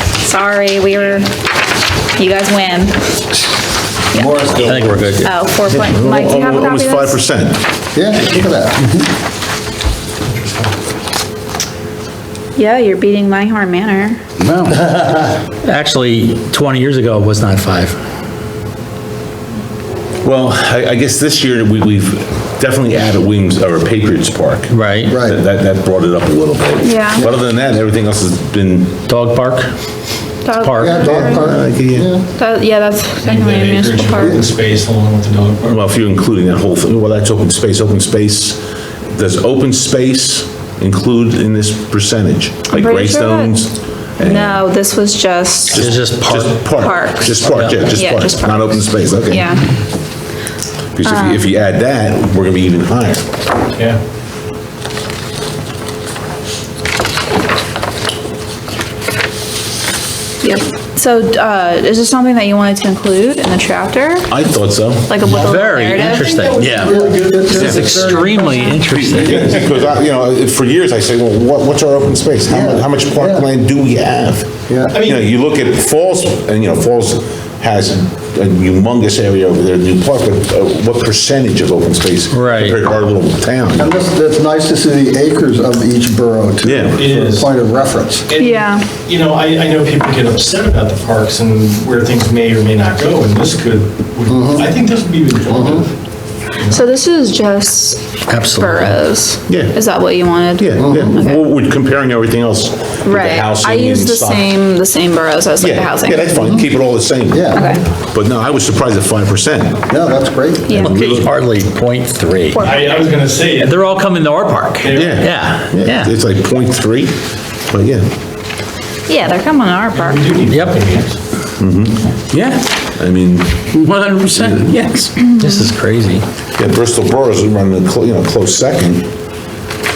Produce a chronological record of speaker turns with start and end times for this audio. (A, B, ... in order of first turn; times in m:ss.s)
0:00.2-0:01.3 A
0:02.2-0:03.0 A
0:04.1-0:04.6 A
0:04.4-0:05.0 B
0:04.6-0:05.3 C
0:05.2-0:07.2 A
0:05.7-0:07.6 B
0:07.9-0:08.8 D
0:10.3-0:10.7 E
0:12.6-0:14.2 A
0:14.4-0:18.0 C
0:20.2-0:29.0 B
0:24.7-0:25.1 C
0:25.1-0:25.4 D
0:26.8-0:27.2 A
0:29.1-0:29.7 C
0:30.4-0:31.5 A
0:30.6-0:31.0 C
0:30.8-0:32.2 D
0:31.0-0:32.1 B
0:32.3-0:34.4 A
0:33.2-0:35.8 E
0:34.2-0:34.4 D
0:35.6-0:44.6 B
0:42.7-0:43.6 A
0:44.2-0:45.8 A
0:45.7-0:46.6 C
0:45.7-0:49.5 B
0:46.6-0:49.6 A
0:47.4-0:47.9 C
0:51.0-0:53.2 B
0:51.0-0:51.4 A
1:00.4-1:04.3 A
1:04.3-1:05.1 B
1:05.1-1:06.4 A
1:05.2-1:07.0 C
1:06.1-1:08.6 E
1:06.7-1:08.7 D
1:07.5-1:09.5 C
1:07.5-1:07.9 B
1:08.5-1:08.8 A
1:08.8-1:23.9 B
1:09.3-1:09.9 E
1:12.5-1:13.4 D
1:14.7-1:15.0 D
1:14.9-1:15.3 E
1:22.3-1:22.8 C
1:23.8-1:28.3 D
1:26.6-1:27.1 B
1:27.0-1:27.5 E
1:28.3-1:35.9 E
1:28.3-1:28.9 A
1:34.3-1:34.7 D
1:35.4-1:35.8 D
1:36.7-1:41.4 A
1:38.3-1:39.0 C
1:39.5-1:39.8 B
1:40.6-1:44.5 B
1:40.8-1:41.2 D
1:43.0-1:46.6 A
1:45.6-1:49.9 B
1:47.3-1:47.7 D
1:47.5-1:47.8 A
1:49.9-1:50.7 D
1:50.7-1:51.0 A
1:50.7-1:51.4 B
1:50.7-1:52.8 C
1:52.5-1:53.1 A
1:52.6-1:53.7 E
1:53.5-1:56.1 C
1:54.8-1:57.2 B
1:57.7-1:58.1 B
1:59.1-2:00.5 A
1:59.9-2:01.1 E
2:00.4-2:00.9 C
2:01.6-2:02.1 B
2:02.3-2:02.6 C
2:02.9-2:03.6 B
2:03.7-2:06.2 C
2:04.3-2:04.6 B
2:05.2-2:05.7 A
2:06.6-2:09.1 B